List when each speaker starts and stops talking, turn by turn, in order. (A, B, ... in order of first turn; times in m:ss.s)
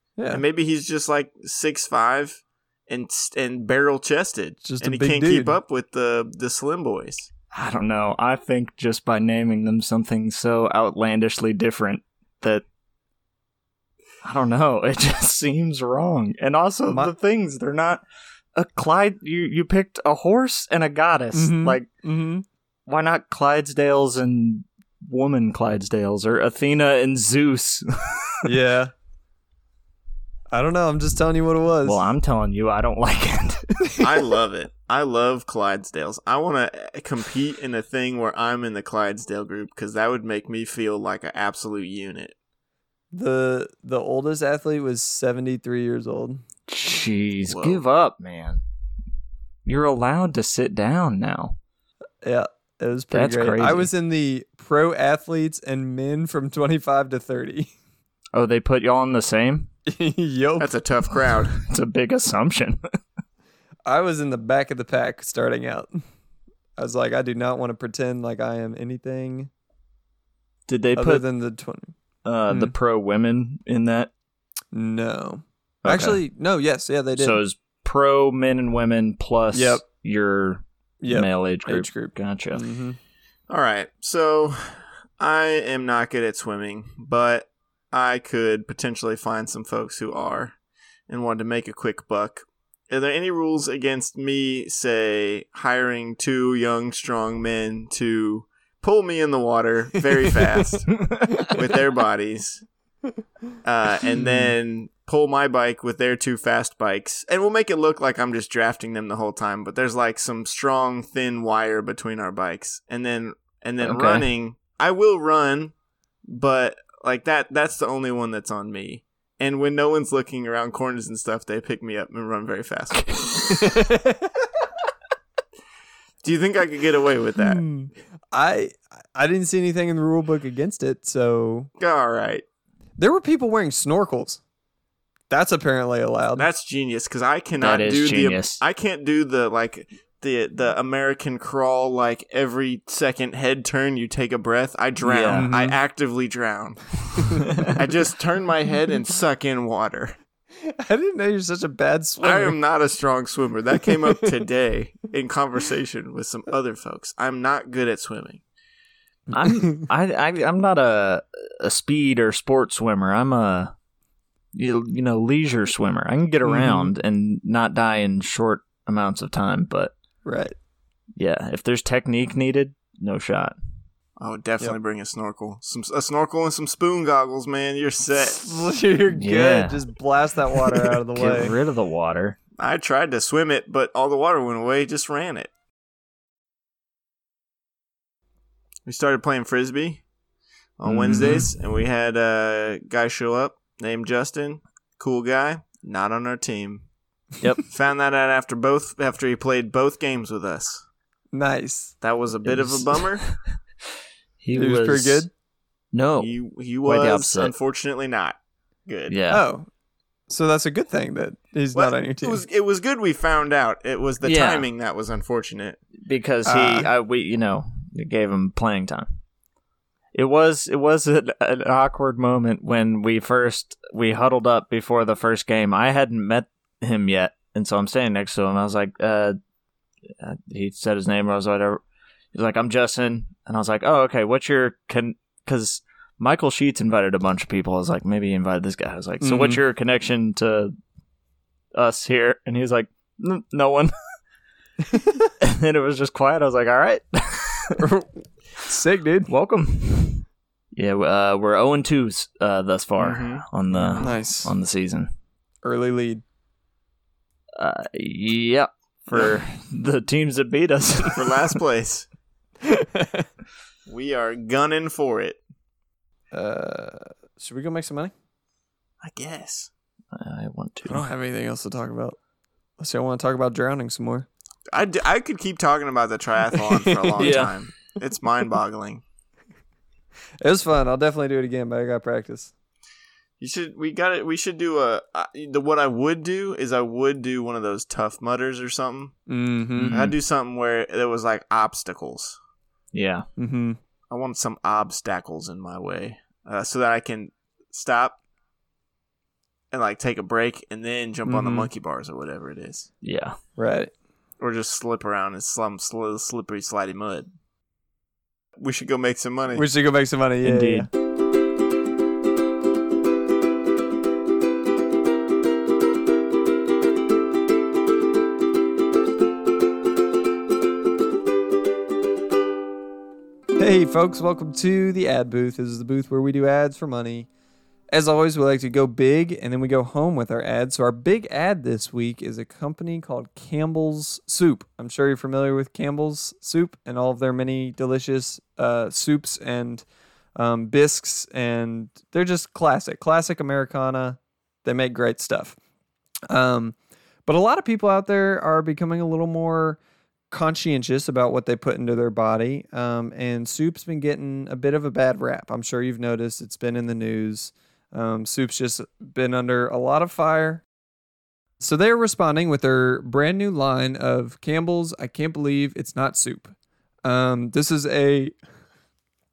0:00.2-0:00.4 A
0:00.3-0:07.3 B
0:04.6-0:05.6 A
0:07.5-0:12.6 C
0:14.2-0:18.0 C
0:18.6-0:21.9 C
0:21.3-0:22.4 A
0:22.9-0:28.3 C
0:28.4-0:28.9 A
0:30.5-0:32.0 A
0:31.8-0:33.9 C
0:34.0-0:42.3 B
0:43.1-0:46.4 A
0:46.7-0:48.6 C
0:47.5-0:47.8 B
0:49.6-0:51.6 C
0:52.2-0:57.7 A
0:53.1-0:53.9 C
0:58.3-0:59.7 C
0:59.9-1:00.7 A
1:00.6-1:01.5 B
1:01.5-1:02.8 C
1:03.8-1:06.0 A
1:06.8-1:09.5 A
1:10.7-1:11.2 C
1:11.0-1:11.9 A
1:12.2-1:14.1 C
1:12.5-1:12.7 A
1:14.7-1:17.4 A
1:15.8-1:16.2 C
1:17.2-1:22.6 C
1:19.5-1:19.8 A
1:21.0-1:23.0 A
1:23.5-1:30.5 B
1:31.1-1:42.6 B
1:41.1-1:41.5 C
1:43.6-1:55.7 B
1:44.2-1:44.5 A
1:53.8-1:54.3 C
1:56.3-2:03.4 B
2:03.0-2:03.5 C
2:03.5-2:04.4 A
2:06.2-2:07.6 B
2:07.4-2:11.7 A
2:11.8-2:12.4 B
2:13.0-2:14.4 A
2:15.3-2:16.5 A
2:16.4-2:30.2 B
2:17.6-2:18.6 C
2:25.0-2:25.5 C
2:25.3-2:25.8 A
2:27.2-2:27.8 A
2:30.6-2:32.6 A
2:32.2-2:38.4 B
2:34.0-2:34.4 A
2:39.3-2:43.7 C
2:39.4-2:39.8 A
2:44.5-2:49.9 C
2:46.4-2:46.9 A
2:50.2-2:50.5 A
2:51.2-2:53.5 C
2:54.2-2:58.4 B
2:58.2-3:01.5 A
2:59.1-2:59.8 C
3:00.7-3:02.4 C
3:02.6-3:05.5 B
3:08.8-3:10.0 B
3:10.8-3:16.8 B
3:10.8-3:11.5 C
3:11.1-3:11.4 A
3:17.7-3:20.8 B
3:21.3-3:21.9 A
3:22.0-3:23.2 B
3:22.4-3:23.3 C
3:24.4-3:25.3 C
3:24.5-3:25.3 A
3:25.9-3:27.5 C
3:26.2-3:29.2 B
3:29.1-3:29.4 C
3:29.3-3:29.7 A
3:30.3-3:32.4 A
3:31.7-3:35.8 B
3:34.2-3:34.7 C
3:36.0-3:39.1 C
3:36.4-3:36.9 A
3:40.1-3:49.4 C
3:50.2-3:51.8 C
3:52.3-4:00.7 C
3:59.2-3:59.6 A
4:01.7-4:03.9 C
4:05.4-4:07.8 C
4:07.8-4:09.3 A
4:09.3-4:15.1 C
4:13.0-4:14.1 B
4:13.9-4:14.5 A
4:15.6-4:16.2 A
4:17.6-4:21.4 C
4:21.1-4:22.1 B
4:22.6-4:23.2 A
4:23.9-4:25.4 B
4:26.3-4:28.1 A
4:29.0-4:29.7 B
4:30.1-4:31.1 C
4:30.9-4:32.2 A
4:32.8-4:34.3 A
4:34.7-4:39.0 B
4:36.7-4:37.4 A
4:37.2-4:37.5 C
4:40.4-4:42.5 A
4:43.4-4:49.1 B
4:49.3-4:50.0 A
4:49.8-4:50.1 C
4:49.9-4:52.4 B
4:52.9-4:53.2 C
4:53.4-4:53.8 A
4:54.1-4:58.2 B
4:59.7-5:02.9 B
5:01.2-5:01.7 A
5:03.0-5:03.4 C
5:03.6-5:03.9 A
5:04.4-5:07.3 B
5:08.6-5:09.6 B
5:09.5-5:10.9 A
5:10.4-5:10.9 C
5:23.6-5:27.3 A
5:27.9-5:39.8 A
5:40.4-5:45.6 A
5:46.3-5:49.8 A
5:50.3-6:00.6 A
6:01.6-6:06.5 A
6:07.0-6:08.3 A